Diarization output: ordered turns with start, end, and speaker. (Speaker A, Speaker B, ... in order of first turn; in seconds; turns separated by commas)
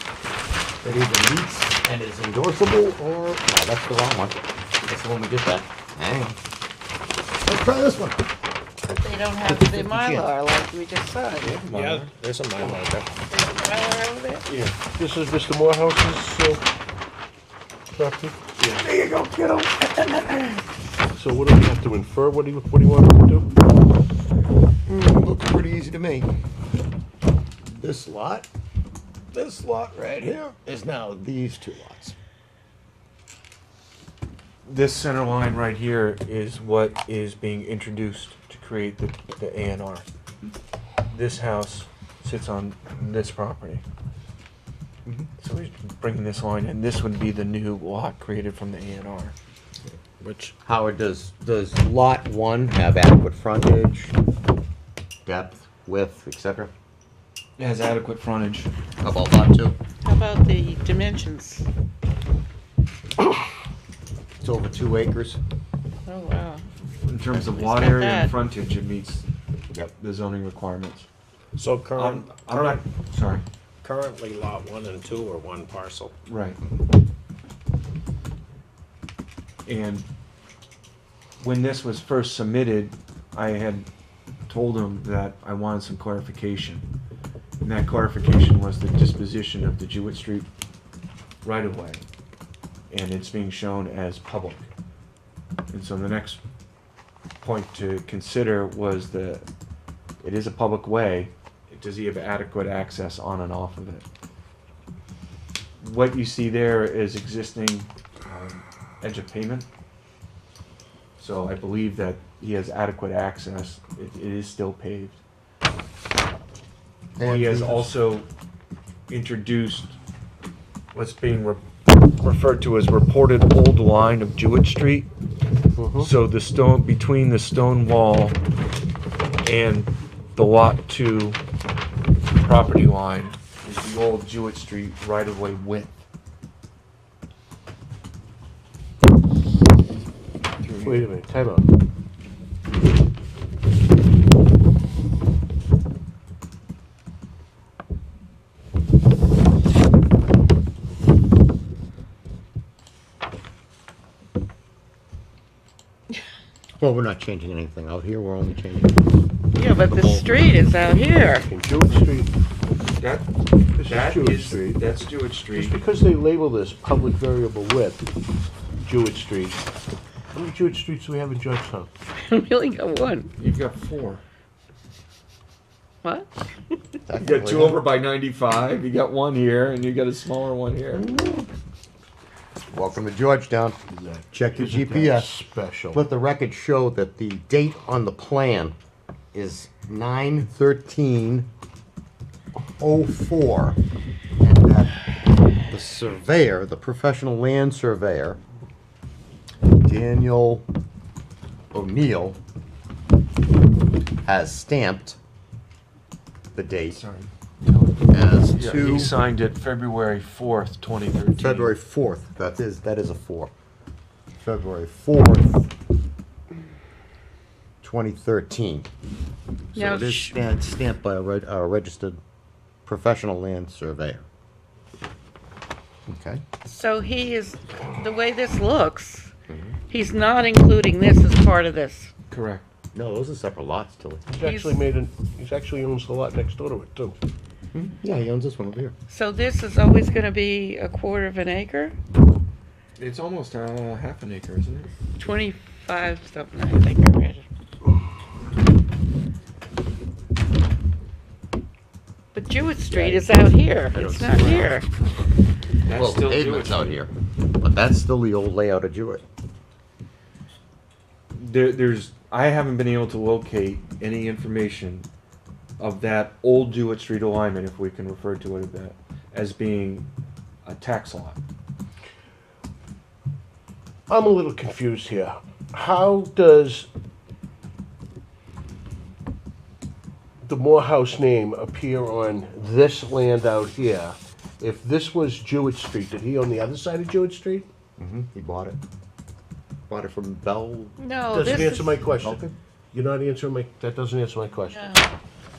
Speaker A: 0.8-6.4, Speaker A: 7.4-8.2, Speaker B: 8.9-11.6, Speaker A: 9.8-10.2, Speaker C: 11.4-12.1, Speaker D: 11.7-13.1, Speaker B: 13.3-14.5, Speaker E: 14.8-16.6, Speaker E: 17.9-18.4, Speaker C: 18.6-19.6, Speaker E: 21.1-23.5, Speaker A: 24.9-26.3, Speaker A: 27.7-28.5, Speaker A: 29.3-32.1, Speaker C: 34.6-40.1, Speaker C: 41.1-43.8, Speaker C: 45.4-49.3, Speaker D: 50.1-50.5, Speaker A: 50.6-54.1, Speaker A: 55.2-56.7, Speaker C: 57.6-58.7, Speaker A: 59.0-59.8, Speaker B: 60.0-61.7, Speaker A: 64.4-65.4, Speaker B: 66.1-66.7, Speaker C: 67.0-69.3, Speaker B: 67.3-68.3, Speaker C: 69.9-71.1, Speaker D: 71.5-72.8, Speaker C: 72.0-73.5, Speaker D: 73.8-76.1, Speaker C: 76.3-76.6, Speaker C: 79.7-80.1, Speaker C: 81.4-83.9, Speaker C: 84.5-86.9, Speaker C: 87.6-90.5, Speaker C: 91.4-92.0, Speaker C: 92.9-94.7, Speaker C: 95.7-96.4, Speaker C: 97.4-99.5, Speaker C: 100.2-104.1, Speaker C: 105.8-109.7, Speaker C: 111.2-115.2, Speaker A: 117.2-117.9, Speaker C: 117.2-118.3, Speaker C: 119.1-120.0, Speaker C: 120.9-121.7, Speaker C: 122.2-125.1, Speaker E: 125.8-126.1, Speaker C: 126.0-128.4, Speaker C: 129.4-131.4, Speaker C: 132.4-136.0, Speaker C: 140.6-141.1, Speaker E: 140.8-141.7, Speaker A: 156.8-159.0, Speaker B: 159.5-161.5, Speaker A: 159.9-160.3, Speaker E: 161.4-162.3, Speaker C: 163.0-165.8, Speaker E: 163.8-164.8, Speaker E: 165.5-168.0, Speaker E: 168.8-169.6, Speaker E: 170.3-171.9, Speaker B: 172.2-173.3, Speaker C: 173.4-174.2, Speaker B: 176.0-176.3, Speaker A: 177.1-177.8, Speaker C: 177.2-181.1, Speaker A: 181.2-181.4, Speaker A: 182.7-183.8, Speaker E: 183.9-186.0, Speaker A: 184.3-185.3, Speaker A: 185.9-188.8, Speaker A: 189.3-191.5, Speaker A: 192.8-193.8, Speaker A: 194.4-194.9, Speaker A: 195.7-198.4, Speaker A: 199.8-200.7, Speaker A: 201.7-202.4, Speaker A: 204.2-205.2, Speaker A: 206.5-207.0, Speaker C: 206.9-211.7, Speaker A: 208.1-209.1, Speaker A: 211.4-213.5, Speaker A: 214.4-215.7, Speaker A: 217.8-218.9, Speaker A: 219.7-222.2, Speaker B: 219.8-220.3, Speaker A: 222.9-224.2, Speaker A: 226.1-226.4, Speaker B: 226.7-229.3, Speaker A: 229.5-229.8, Speaker B: 229.9-232.1, Speaker C: 232.3-232.7, Speaker A: 232.9-234.2, Speaker E: 234.3-237.2, Speaker B: 234.4-234.8, Speaker A: 237.7-238.9, Speaker B: 239.1-242.0, Speaker C: 243.0-244.9, Speaker B: 245.2-247.5, Speaker B: 252.3-254.9, Speaker A: 252.9-253.3, Speaker A: 253.9-254.7, Speaker C: 254.0-254.7, Speaker C: 255.9-257.0, Speaker A: 255.9-259.2, Speaker C: 261.3-265.1, Speaker C: 265.8-270.1, Speaker C: 270.6-271.4, Speaker E: 274.1-276.9, Speaker E: 280.4-287.7, Speaker A: 288.0-288.8, Speaker A: 289.9-290.9, Speaker B: 291.0-292.0, Speaker E: 291.3-294.9, Speaker A: 292.2-292.5, Speaker B: 294.7-295.1